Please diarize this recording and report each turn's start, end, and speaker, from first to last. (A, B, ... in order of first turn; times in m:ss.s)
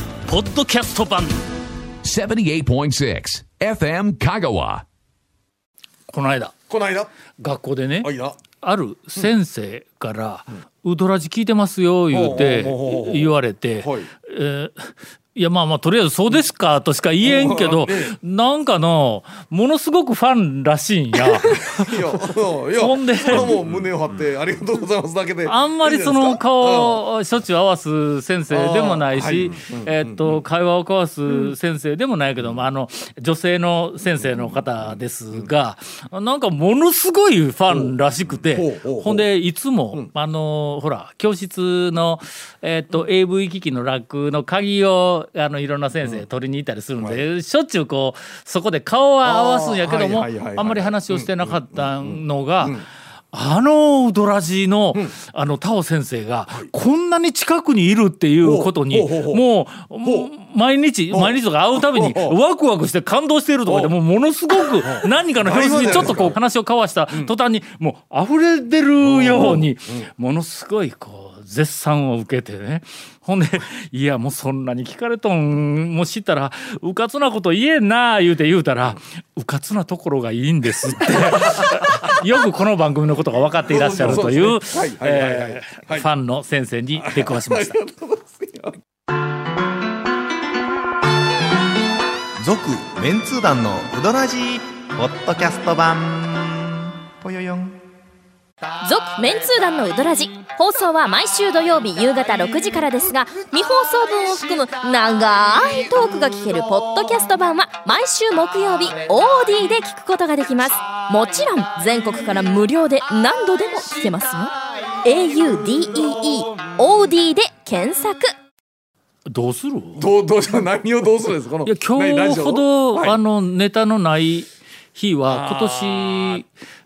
0:00.3-0:01.4 A
0:02.0-0:04.8 B
0:06.1-0:06.5 A
0:06.7-0:07.1 C
0:07.4-0:22.0 A
0:08.0-0:08.4 C
0:12.1-0:14.1 C
0:17.2-0:18.2 C
0:21.4-0:27.0 C
0:22.7-0:23.6 A
0:25.5-0:52.8 A
0:28.5-0:30.4 C
0:34.2-0:35.5 C
0:37.7-0:39.3 C
0:49.2-0:52.8 C
0:53.3-1:27.8 A
0:58.4-0:59.4 C
1:00.0-1:00.3 C
1:01.1-1:02.4 C
1:03.7-1:03.9 C
1:04.8-1:06.4 C
1:09.0-1:10.0 C
1:21.1-1:22.0 C
1:23.7-1:26.1 C
1:27.0-1:28.8 C
1:32.5-1:36.0 D
1:37.2-1:37.5 D
1:38.8-1:54.5 E
1:55.0-1:58.3 E
1:59.3-2:00.1 A
2:00.0-2:03.2 C
2:01.6-2:06.5 A
2:05.3-2:06.4 C